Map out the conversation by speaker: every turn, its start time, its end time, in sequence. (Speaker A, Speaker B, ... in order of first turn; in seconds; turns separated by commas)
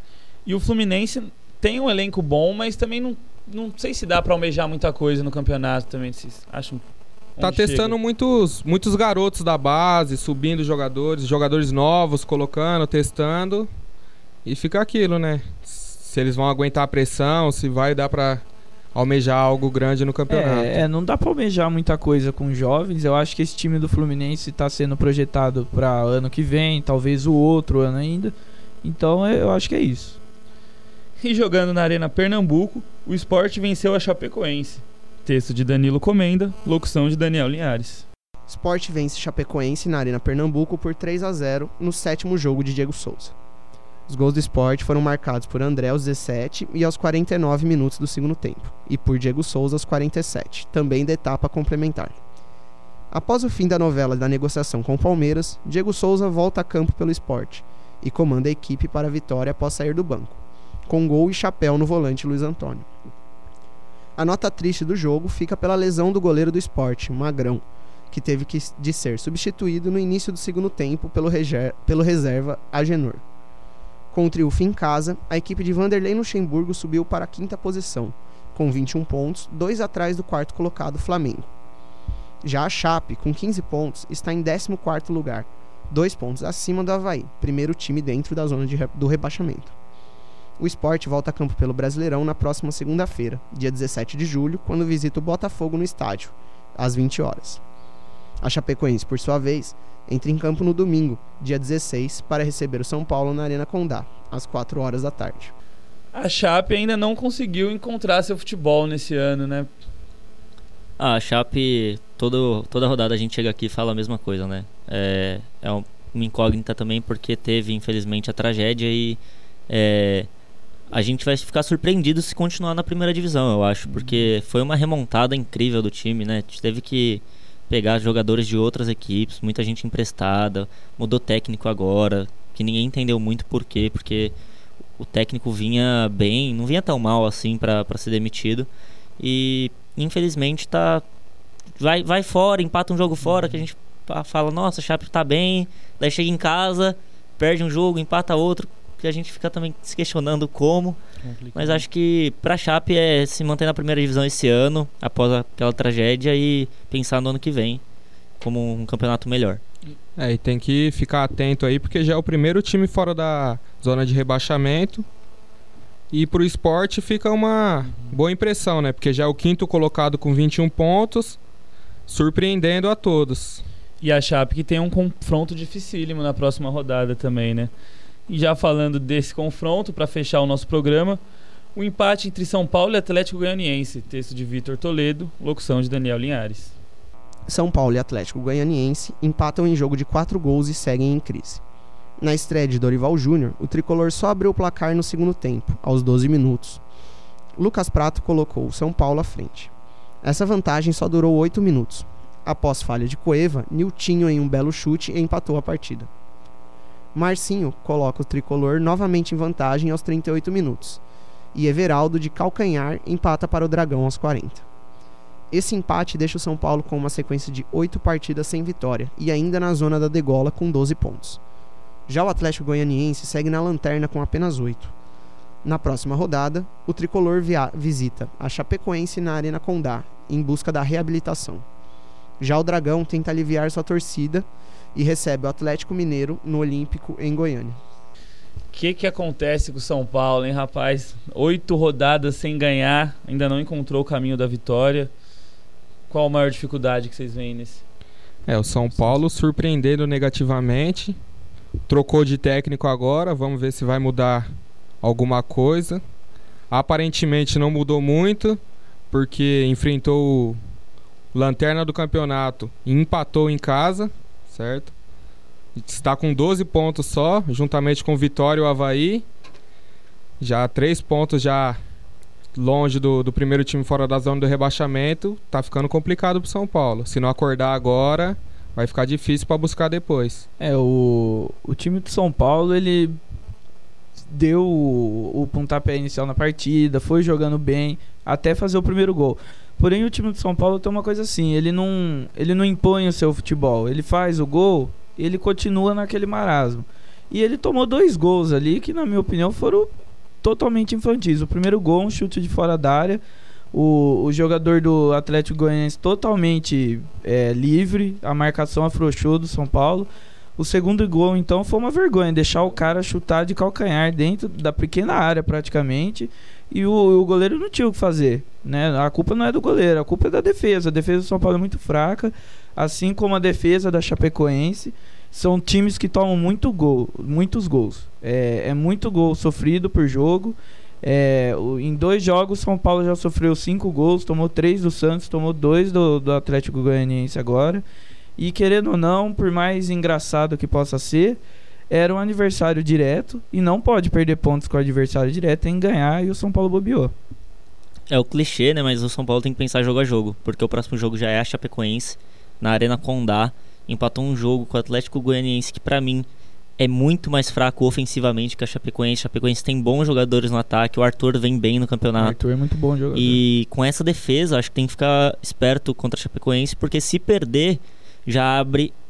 Speaker A: 0.5-6.8, Speaker A: 7.4-8.0, Speaker B: 7.4-13.7, Speaker B: 14.4-20.8, Speaker C: 20.3-30.2, Speaker A: 31.2-38.1, Speaker D: 38.5-43.3, Speaker D: 44.1-52.2, Speaker D: 53.1-62.9, Speaker D: 64.2-73.2, Speaker D: 74.1-81.5, Speaker D: 82.4-89.8, Speaker D: 90.6-97.6, Speaker D: 98.4-105.5, Speaker A: 106.1-109.7, Speaker E: 111.0-120.3, Speaker E: 120.9-134.3, Speaker A: 123.9-124.3, Speaker E: 135.0-138.7, Speaker E: 139.2-141.0, Speaker E: 141.8-151.0, Speaker A: 143.2-143.7, Speaker A: 151.3-151.8, Speaker E: 151.6-157.8, Speaker E: 158.4-159.6, Speaker B: 160.2-165.1, Speaker B: 166.1-171.4, Speaker B: 172.1-173.6, Speaker A: 174.0-177.7, Speaker A: 178.3-181.2, Speaker A: 181.8-186.7, Speaker D: 187.5-191.6, Speaker D: 192.2-196.8, Speaker D: 197.6-199.7, Speaker D: 200.2-206.1, Speaker D: 207.2-211.0, Speaker D: 211.5-214.7, Speaker D: 215.5-221.4, Speaker D: 222.1-224.9, Speaker D: 225.6-231.7, Speaker D: 232.4-237.8, Speaker A: 238.7-245.1, Speaker A: 246.1-247.8, Speaker B: 248.5-251.2, Speaker B: 251.9-254.5, Speaker B: 255.0-256.0, Speaker B: 256.7-260.6, Speaker B: 261.3-264.9, Speaker B: 265.8-269.2, Speaker B: 270.4-271.8, Speaker B: 272.6-280.5, Speaker C: 280.6-283.2, Speaker C: 284.3-303.2, Speaker C: 303.7-337.8, Speaker C: 338.4-347.1, Speaker E: 348.1-356.3, Speaker E: 356.8-362.4, Speaker C: 362.2-363.4, Speaker E: 363.1-368.9